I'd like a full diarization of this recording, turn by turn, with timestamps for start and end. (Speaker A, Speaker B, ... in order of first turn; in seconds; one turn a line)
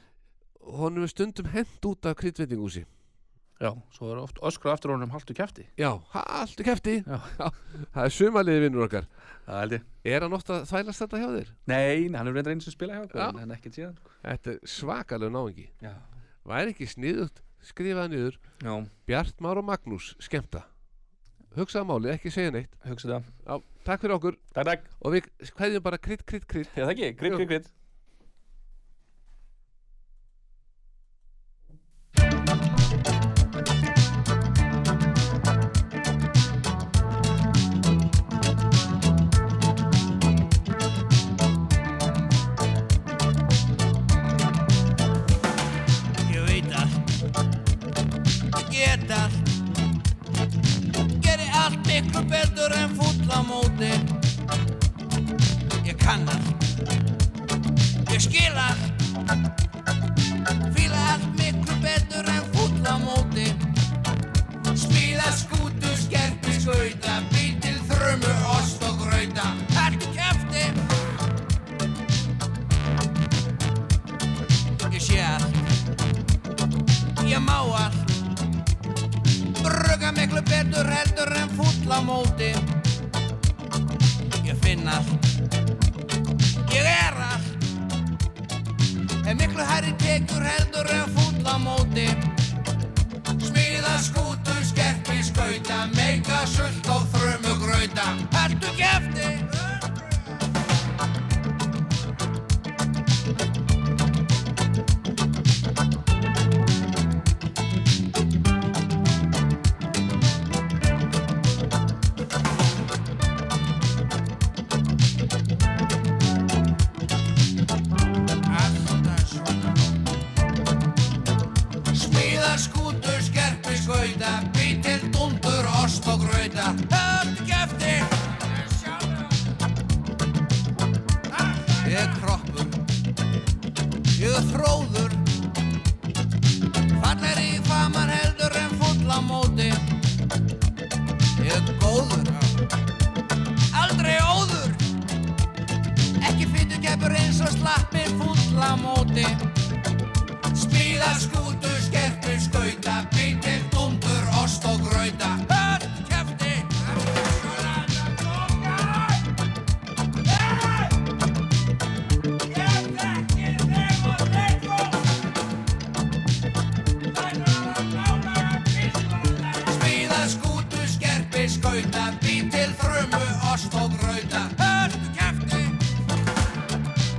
Speaker A: 0.6-2.9
Speaker B: 3.6-5.7
Speaker A: 5.8-9.1
Speaker B: 7.1-7.4
Speaker B: 9.5-9.8
Speaker A: 10.0-11.6
Speaker B: 11.7-14.1
Speaker A: 13.1-13.4
Speaker A: 14.2-15.7
Speaker A: 16.4-18.4
Speaker B: 18.6-18.9
Speaker A: 19.1-20.7
Speaker A: 21.5-22.8
Speaker B: 22.8-23.2
Speaker A: 23.4-24.5
Speaker B: 24.5-24.9
Speaker A: 25.0-27.5
Speaker B: 26.7-27.7
Speaker C: 46.3-46.9
Speaker C: 48.7-49.4
Speaker C: 51.2-54.1
Speaker C: 55.9-56.5
Speaker C: 58.1-58.8
Speaker C: 60.7-63.6
Speaker C: 64.8-70.7
Speaker C: 74.9-75.5
Speaker C: 77.2-78.0
Speaker C: 79.6-82.7
Speaker C: 84.4-85.1
Speaker C: 86.7-87.5
Speaker C: 89.2-92.2
Speaker C: 93.4-99.5
Speaker C: 118.6-119.4
Speaker C: 121.9-128.1
Speaker C: 128.6-129.1
Speaker C: 131.8-132.7
Speaker C: 134.2-135.2
Speaker C: 137.0-139.8
Speaker C: 141.4-142.3
Speaker C: 143.8-144.7
Speaker C: 146.2-149.4
Speaker C: 150.6-158.9
Speaker C: 162.6-164.7
Speaker C: 167.2-175.8